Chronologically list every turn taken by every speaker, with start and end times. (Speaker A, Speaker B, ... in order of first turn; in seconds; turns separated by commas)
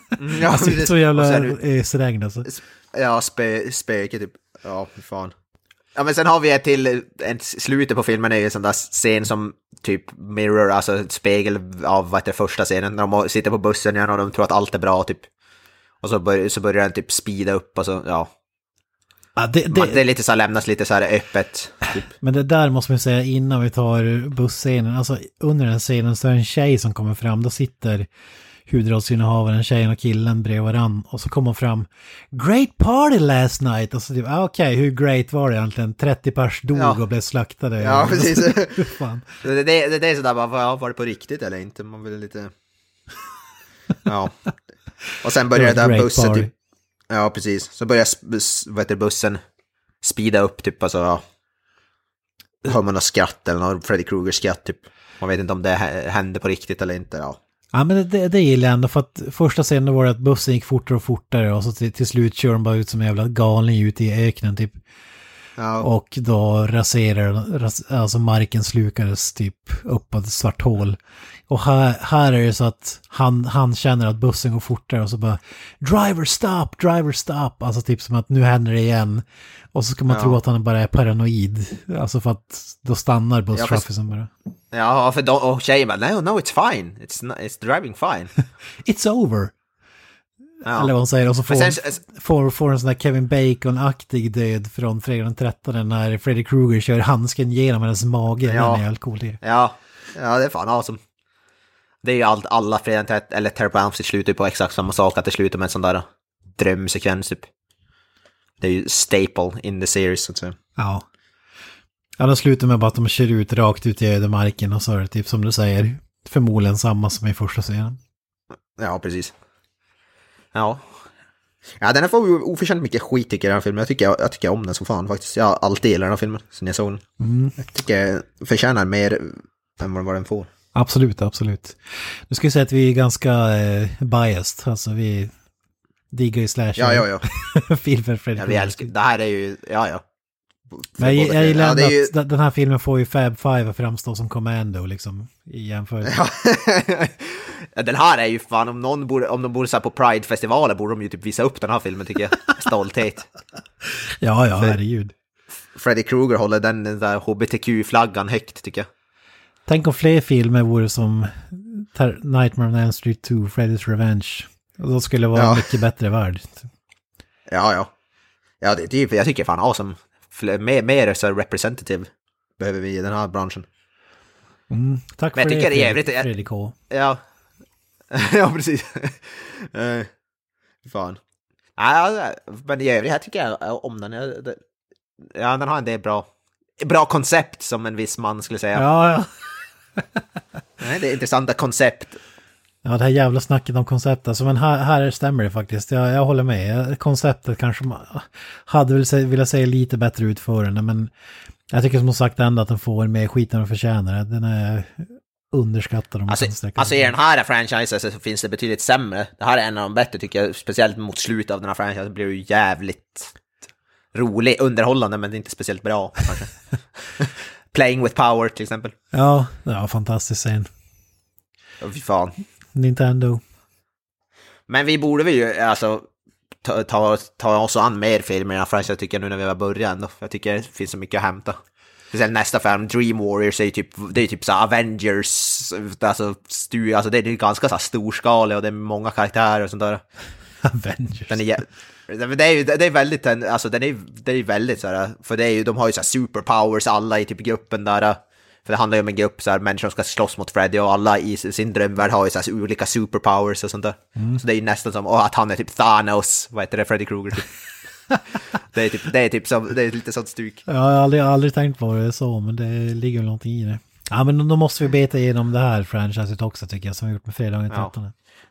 Speaker A: 0.2-1.6, Speaker B: 0.4-2.5, Speaker A: 2.5-5.3, Speaker A: 6.0-15.3, Speaker A: 16.0-18.3, Speaker B: 19.4-20.0, Speaker A: 19.7-22.1, Speaker B: 22.1-28.1, Speaker B: 28.7-39.3, Speaker A: 36.8-37.0, Speaker A: 37.8-42.5, Speaker A: 44.0-44.4, Speaker A: 45.2-46.5, Speaker B: 45.5-46.5, Speaker A: 47.1-49.4, Speaker A: 50.0-51.2, Speaker A: 52.6-57.4, Speaker B: 57.7-64.8, Speaker A: 65.6-65.9, Speaker B: 65.8-71.0, Speaker B: 71.5-84.3, Speaker A: 80.1-80.4, Speaker A: 83.5-83.8, Speaker A: 84.7-88.3, Speaker B: 88.8-89.5, Speaker A: 90.6-90.9, Speaker B: 90.8-99.4, Speaker A: 91.5-92.0, Speaker A: 98.5-98.8, Speaker A: 99.4-101.0, Speaker A: 102.0-107.5, Speaker A: 108.6-110.6, Speaker B: 110.8-111.0, Speaker B: 112.2-118.0, Speaker A: 118.8-119.3, Speaker A: 120.5-120.9, Speaker A: 121.8-127.0, Speaker B: 127.2-127.6, Speaker A: 127.6-130.5, Speaker B: 130.8-131.8, Speaker B: 132.3-135.3, Speaker B: 136.1-138.9, Speaker A: 136.8-137.3, Speaker A: 138.4-140.0, Speaker A: 140.7-142.1, Speaker B: 141.0-146.2, Speaker A: 146.0-153.3, Speaker B: 153.9-155.1, Speaker A: 155.8-158.9, Speaker B: 159.7-166.7, Speaker A: 165.3-165.7, Speaker A: 167.5-167.9, Speaker A: 168.6-173.7, Speaker B: 174.7-176.8, Speaker A: 175.3-176.3, Speaker A: 176.9-177.2, Speaker A: 178.1-180.1, Speaker A: 180.8-181.2, Speaker A: 181.8-184.6, Speaker A: 185.3-186.3, Speaker A: 186.8-188.8, Speaker B: 188.8-189.3, Speaker A: 190.8-192.2, Speaker B: 192.8-201.1, Speaker B: 201.7-207.1, Speaker A: 206.3-213.3, Speaker A: 214.1-218.9, Speaker B: 219.1-220.7, Speaker A: 221.8-222.3, Speaker B: 222.8-223.4, Speaker A: 224.7-226.1, Speaker A: 226.6-231.6, Speaker A: 232.1-240.0, Speaker B: 240.6-241.4, Speaker A: 241.3-257.5, Speaker A: 258.7-260.6, Speaker B: 260.7-268.1